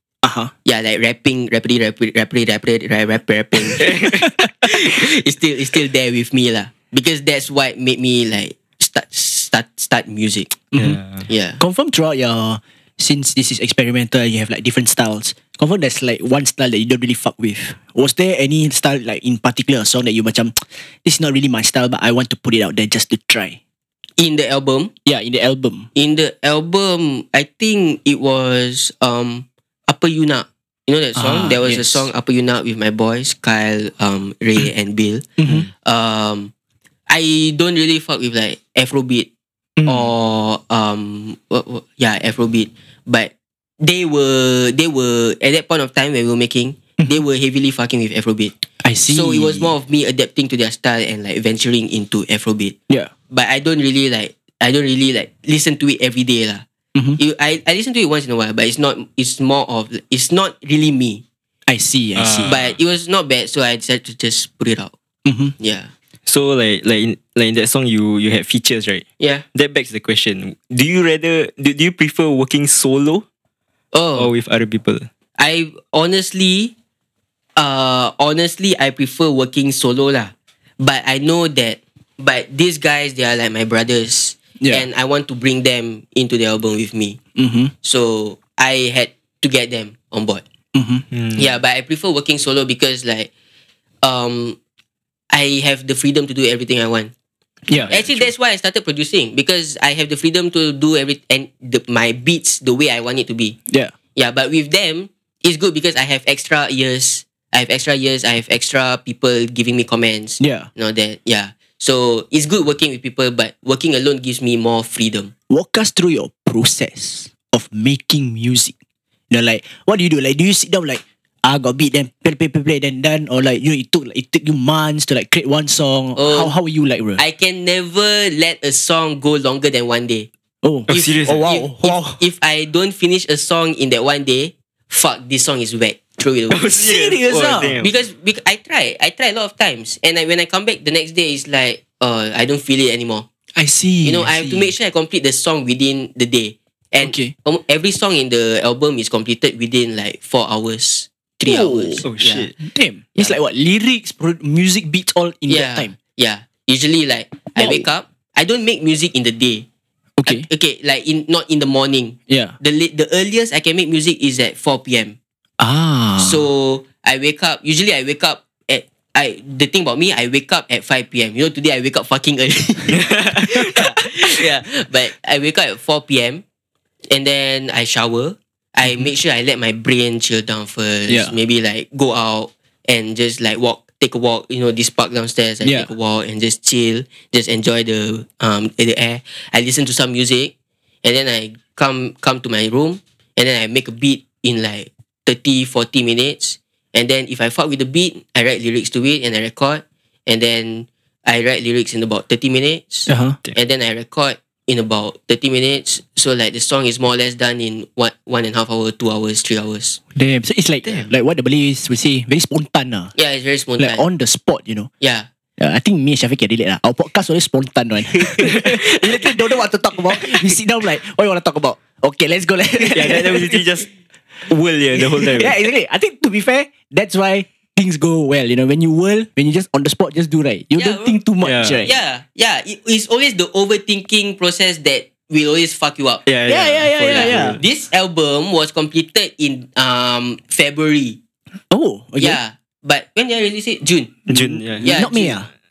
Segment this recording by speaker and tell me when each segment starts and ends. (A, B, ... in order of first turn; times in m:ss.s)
0:00.2-0:00.5 A
0:00.6-0:10.5 B
0:03.8-0:04.2 C
0:10.7-0:11.0 A
0:10.8-0:11.3 C
0:11.3-0:11.6 B
0:11.6-0:23.6 A
0:24.2-0:24.9 B
0:25.0-0:25.9 A
0:26.0-0:36.5 B
0:31.2-0:32.1 A
0:35.4-0:35.7 A
0:37.1-0:39.3 B
0:39.8-0:40.1 A
0:39.8-0:48.6 B
0:48.8-0:49.7 A
0:49.1-0:52.8 B
0:53.3-0:56.6 B
0:57.2-1:01.2 B
1:01.7-1:02.6 A
1:02.2-1:02.8 C
1:02.5-1:04.9 B
1:05.2-1:05.6 A
1:05.6-1:05.9 B
1:06.3-1:13.2 C
1:13.9-1:14.3 B
1:14.2-1:15.1 C
1:15.4-1:16.7 B
1:17.6-1:27.2 B
1:24.6-1:24.9 A
1:27.4-1:27.7 A
1:27.8-1:30.4 B
1:30.7-1:31.0 A
1:31.1-1:31.5 C
1:31.4-1:33.3 B
1:34.0-1:34.6 B
1:35.3-1:37.1 B
1:37.7-1:38.3 A
1:37.9-1:43.6 B
1:44.2-1:55.3 B
1:50.4-1:50.7 A
1:55.5-1:58.7 A
1:59.3-2:07.2 A
2:06.2-2:06.5 B
2:07.2-2:10.3 B
2:10.6-2:12.2 A
2:10.9-2:11.5 C
2:10.9-2:16.7 B
2:16.5-2:17.9 C
2:16.8-2:17.8 A
2:17.8-2:23.3 B
2:23.6-2:24.7 A
2:24.0-2:32.5 B
2:27.0-2:27.3 A
2:31.5-2:32.0 A
2:32.0-2:32.5 C
2:32.6-2:36.0 A
2:35.5-2:39.7 B
2:37.6-2:37.9 A
2:40.2-2:40.5 A
2:40.2-2:45.2 B
2:42.3-2:42.6 A
2:45.6-2:46.5 A
2:46.2-2:56.4 B
2:52.9-2:53.8 C
2:57.1-3:30.0 B
3:01.1-3:01.4 A
3:05.6-3:05.9 A
3:23.1-3:23.4 A
3:30.2-3:33.1 A
3:33.2-3:34.0 B
3:33.8-3:34.9 A
3:35.0-3:35.3 B
3:35.6-3:43.6 A
3:38.1-3:39.2 B
3:42.9-3:43.9 C
3:44.5-3:45.6 C
3:45.0-3:51.9 A
3:50.8-3:51.2 B
3:51.4-3:51.8 C
3:51.8-3:56.2 B
3:56.3-3:57.6 C
3:56.5-3:57.6 A
3:57.0-4:01.2 B
4:01.7-4:02.4 A
4:02.2-4:05.4 B
4:04.3-4:04.9 C
4:04.4-4:05.5 A